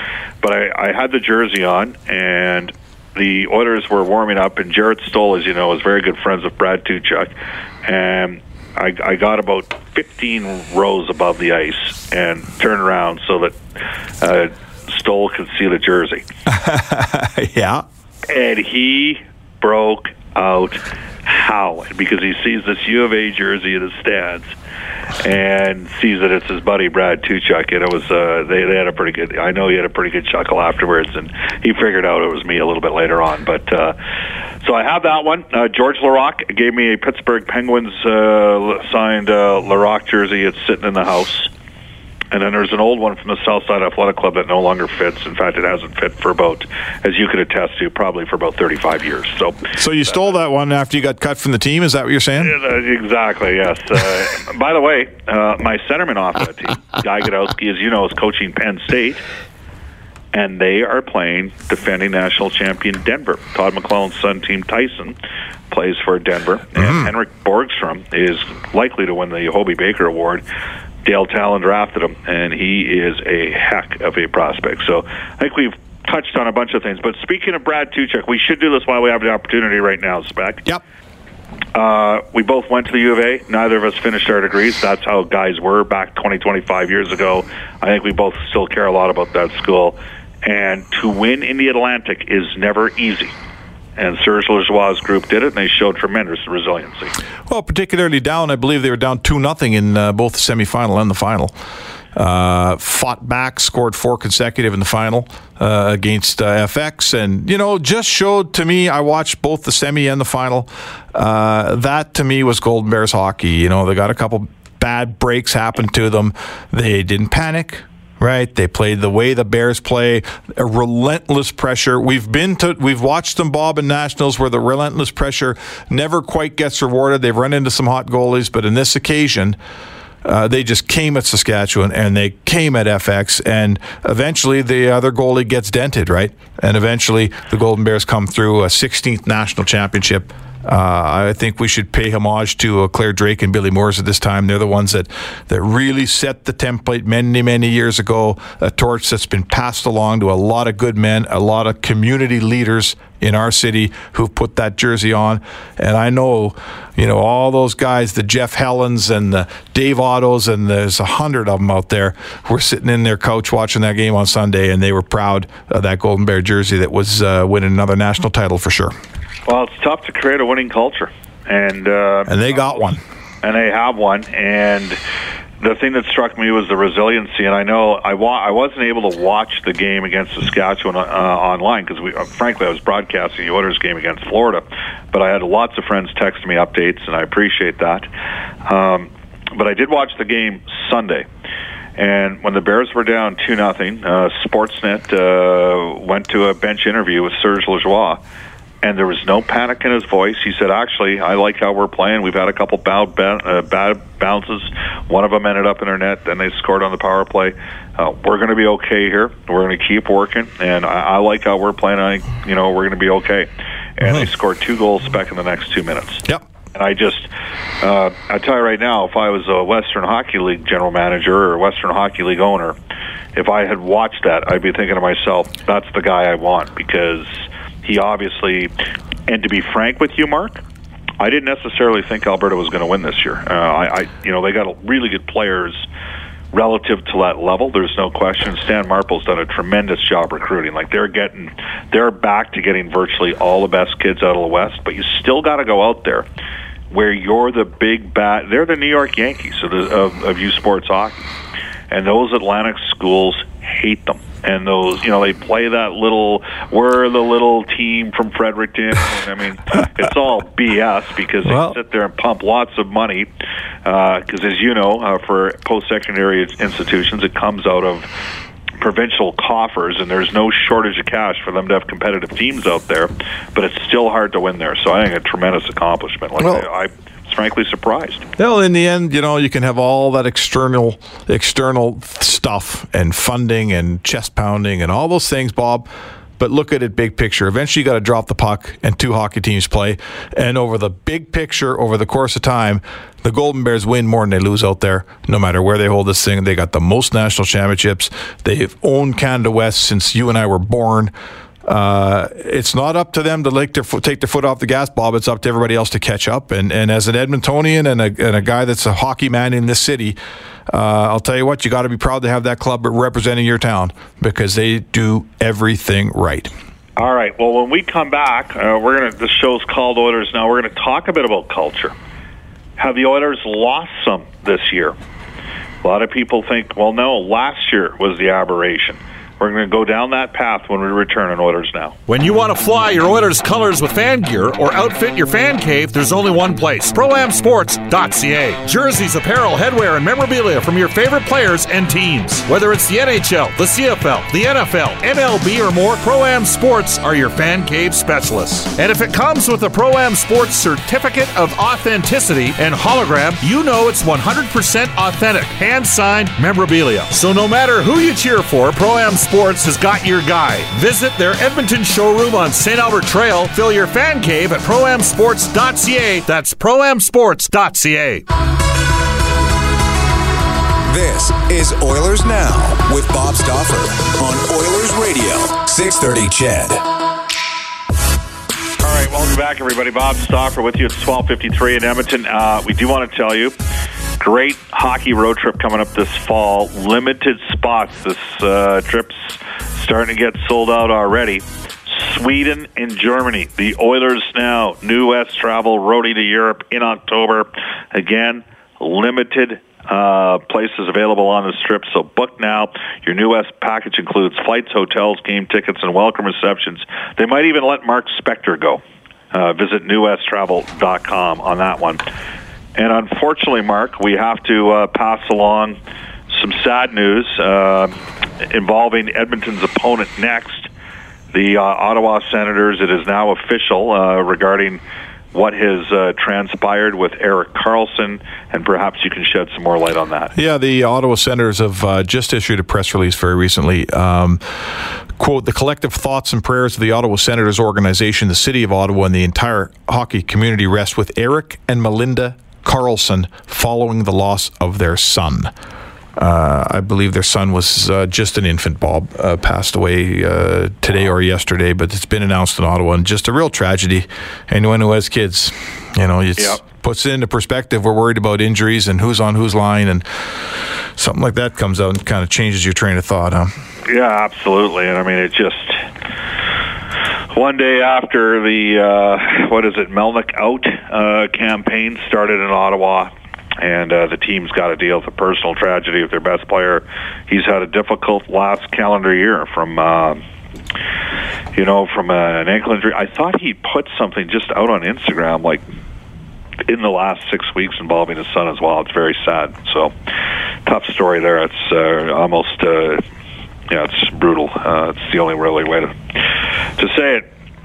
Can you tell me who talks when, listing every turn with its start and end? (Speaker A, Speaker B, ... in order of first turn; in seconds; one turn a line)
Speaker A: 0.4-7.3
Speaker A: 7.8-13.6
Speaker A: 14.2-16.2
Speaker B: 16.5-17.8
Speaker A: 18.3-24.5
Speaker A: 25.2-34.0
Speaker A: 34.6-41.5
Speaker A: 42.3-50.2
Speaker B: 49.7-52.6
Speaker A: 52.4-59.2
Speaker A: 60.3-65.2
Speaker A: 65.7-70.4
Speaker B: 66.8-67.1
Speaker A: 71.0-80.6
Speaker A: 81.7-93.3
Speaker A: 94.0-97.1
Speaker B: 97.5-101.5
Speaker B: 102.2-129.6
Speaker B: 130.2-168.9
Speaker A: 169.5-172.4
Speaker B: 172.3-173.0
Speaker A: 173.4-175.0
Speaker A: 175.6-188.1
Speaker A: 188.7-191.3
Speaker A: 192.0-198.2
Speaker A: 198.8-217.3
Speaker A: 217.8-222.8
Speaker A: 223.3-228.7
Speaker A: 229.3-230.6
Speaker A: 231.2-235.9
Speaker A: 236.5-246.3
Speaker A: 246.9-251.2
Speaker A: 251.9-263.3
Speaker B: 261.4-261.8
Speaker A: 263.9-268.1
Speaker A: 268.8-278.2
Speaker B: 276.4-276.7
Speaker B: 278.4-285.9
Speaker B: 286.4-301.1
Speaker B: 301.7-310.2
Speaker B: 310.7-316.5
Speaker A: 317.0-321.9
Speaker A: 322.8-324.9
Speaker A: 325.8-331.9
Speaker C: 332.1-368.2
Speaker D: 370.9-376.8
Speaker A: 378.8-383.6
Speaker A: 384.2-408.8
Speaker A: 409.3-412.1
Speaker A: 412.8-415.8
Speaker A: 416.3-420.7
Speaker A: 421.3-424.8
Speaker A: 425.3-430.3
Speaker B: 430.4-434.4
Speaker B: 435.2-445.5
Speaker B: 446.2-463.5
Speaker A: 463.9-465.9
Speaker A: 467.3-480.2
Speaker A: 481.5-485.6
Speaker A: 486.7-489.9
Speaker A: 490.6-493.0
Speaker A: 493.7-497.3